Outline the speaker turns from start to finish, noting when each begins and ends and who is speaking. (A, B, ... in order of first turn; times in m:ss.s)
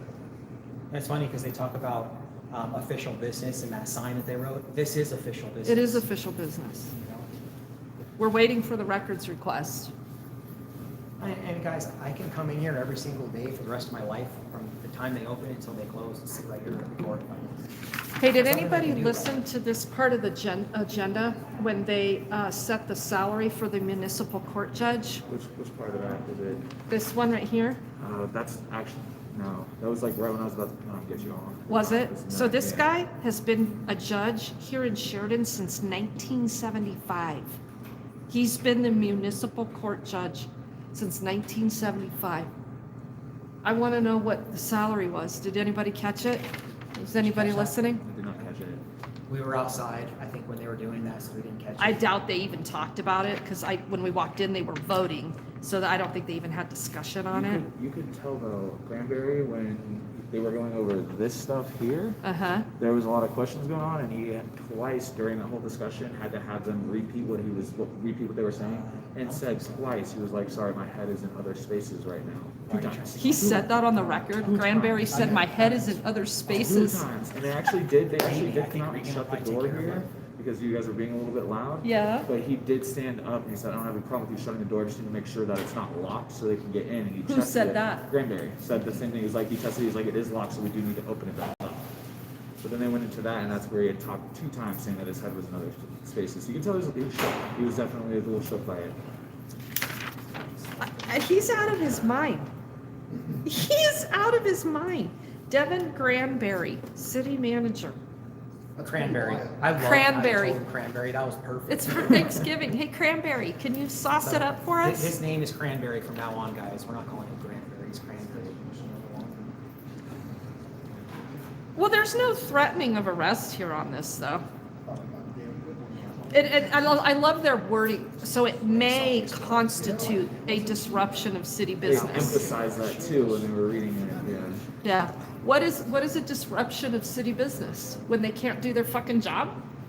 0:00.9-0:06.1 A
0:05.7-0:06.9 B
0:06.9-0:07.3 A
0:08.2-0:09.9 B
0:11.2-0:19.5 A
0:18.2-0:25.2 B
0:25.3-0:26.7 C
0:26.9-0:27.8 B
0:28.0-0:32.9 C
0:31.7-0:37.6 B
0:38.3-0:42.5 B
0:43.6-0:48.0 B
0:47.2-0:47.9 A
0:47.9-0:48.8 C
0:49.3-0:52.0 A
0:51.8-0:57.6 B
0:57.3-1:02.2 C
1:02.2-1:02.7 B
1:02.8-1:13.6 C
1:08.6-1:09.7 A
1:12.7-1:14.3 A
1:13.2-1:17.1 B
1:14.4-1:15.2 C
1:15.0-1:16.0 A
1:16.5-1:31.9 C
1:18.2-1:20.1 A
1:21.8-1:22.3 B
1:27.2-1:28.1 B
1:32.6-1:39.0 C
1:40.8-1:42.5 B
1:43.4-1:48.0 B
1:48.8-1:52.5 A
1:49.8-1:50.6 B
1:51.7-1:55.2 B
1:54.2-1:59.2 A
2:01.8-2:04.4 B
2:06.3-2:12.5 B
2:08.7-2:10.2 A
2:11.8-2:14.6 C
2:12.0-2:13.1 A
2:14.8-2:19.6 B